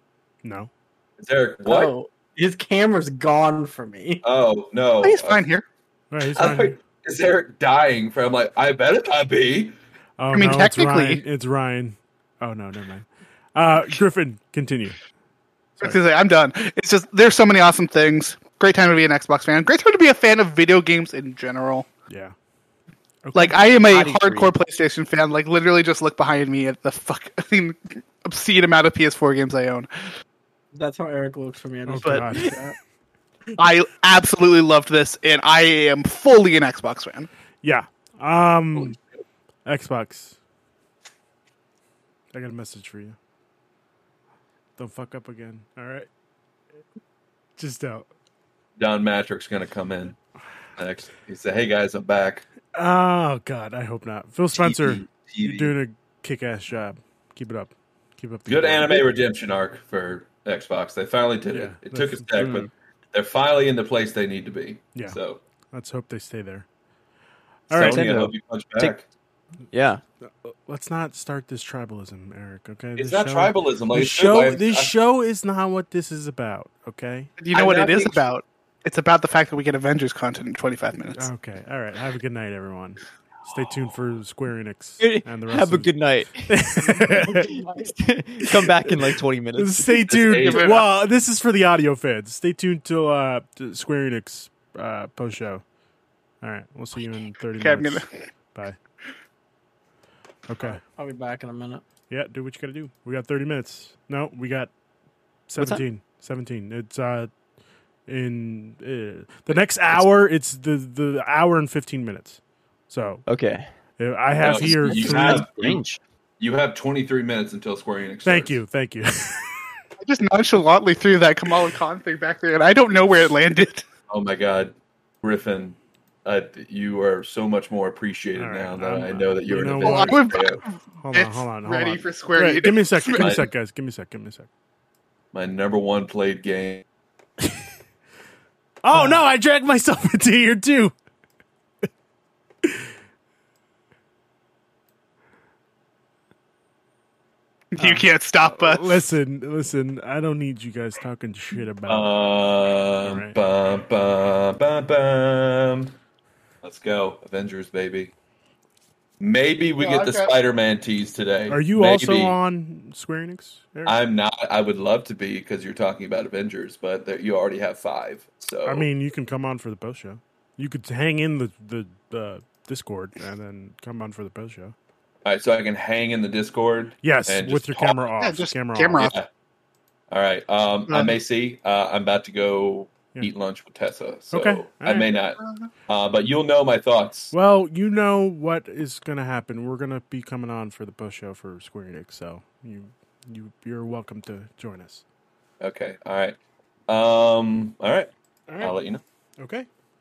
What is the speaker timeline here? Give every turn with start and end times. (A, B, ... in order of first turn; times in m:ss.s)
0:00.4-0:00.7 A
0:01.2-0:01.9 B
0:01.6-0:04.2 C
0:04.2-0:05.4 B
0:05.0-0:05.6 D
0:06.1-0:06.8 A
0:06.2-0:09.7 B
0:10.2-0:15.0 A
0:10.3-0:11.2 D
0:15.8-0:21.9 D
0:22.1-0:22.3 A
0:23.2-0:23.6 A
0:23.3-0:30.1 D
0:23.9-0:24.5 E
0:30.7-0:32.5 C
0:31.8-0:32.6 A
0:32.0-0:32.6 D
0:33.6-0:37.3 D
0:37.6-0:39.0 A
0:39.6-0:40.4 A
0:42.3-0:43.2 A
0:44.8-0:46.1 A
0:47.6-0:48.1 A
0:48.8-0:50.2 B
0:50.8-0:52.5 B
0:52.7-0:59.1 A
0:54.5-0:55.7 B
0:58.5-1:05.4 B
1:01.5-1:02.2 A
1:02.4-1:02.7 E
1:05.7-1:06.6 A
1:07.7-1:08.2 A
1:07.7-1:09.0 B
1:07.7-1:08.9 E
1:09.7-1:10.0 E
1:10.4-1:17.4 A
1:13.0-1:14.9 B
1:17.4-1:21.3 D
1:17.5-1:18.2 B
1:21.2-1:27.5 A
1:25.0-1:30.0 E
1:26.9-1:27.9 C
1:29.6-1:35.6 A
1:30.1-1:30.8 B
1:36.4-1:38.8 A
1:37.6-1:38.1 D
1:40.5-1:40.8 A
1:40.6-1:41.8 C
1:42.1-1:44.7 A
1:45.5-1:47.3 A
1:45.6-1:45.8 E
1:48.1-1:53.2 A
1:53.3-1:53.7 E
1:54.0-1:55.5 A
1:54.4-1:55.8 B
1:54.4-1:56.0 E
1:56.4-1:58.6 B
1:58.2-1:59.7 A
2:00.0-2:03.8 D
2:04.1-2:10.6 B
2:08.3-2:10.4 A
2:09.8-2:13.3 D
2:11.0-2:14.5 A
2:13.2-2:13.5 B
2:15.3-2:16.8 B
2:18.8-2:20.9 A
2:27.7-2:29.0 D
2:27.8-2:32.1 A
2:31.9-2:35.9 B
2:33.0-2:33.4 A
2:36.6-2:38.1 B
2:39.2-2:42.4 B
2:39.8-2:40.4 D
2:41.5-2:44.0 A
2:43.8-2:48.9 B
2:48.6-2:54.7 A
2:55.2-2:58.0 B
2:57.0-2:59.1 A
2:58.2-2:59.1 D
2:59.0-2:59.3 B
3:00.1-3:07.3 B
3:00.9-3:01.1 D
3:04.3-3:05.1 A
3:05.4-3:05.7 D
3:07.3-3:15.0 A
3:15.6-3:16.4 B
3:16.9-3:19.0 B
3:18.5-3:18.7 A
3:19.4-3:19.7 A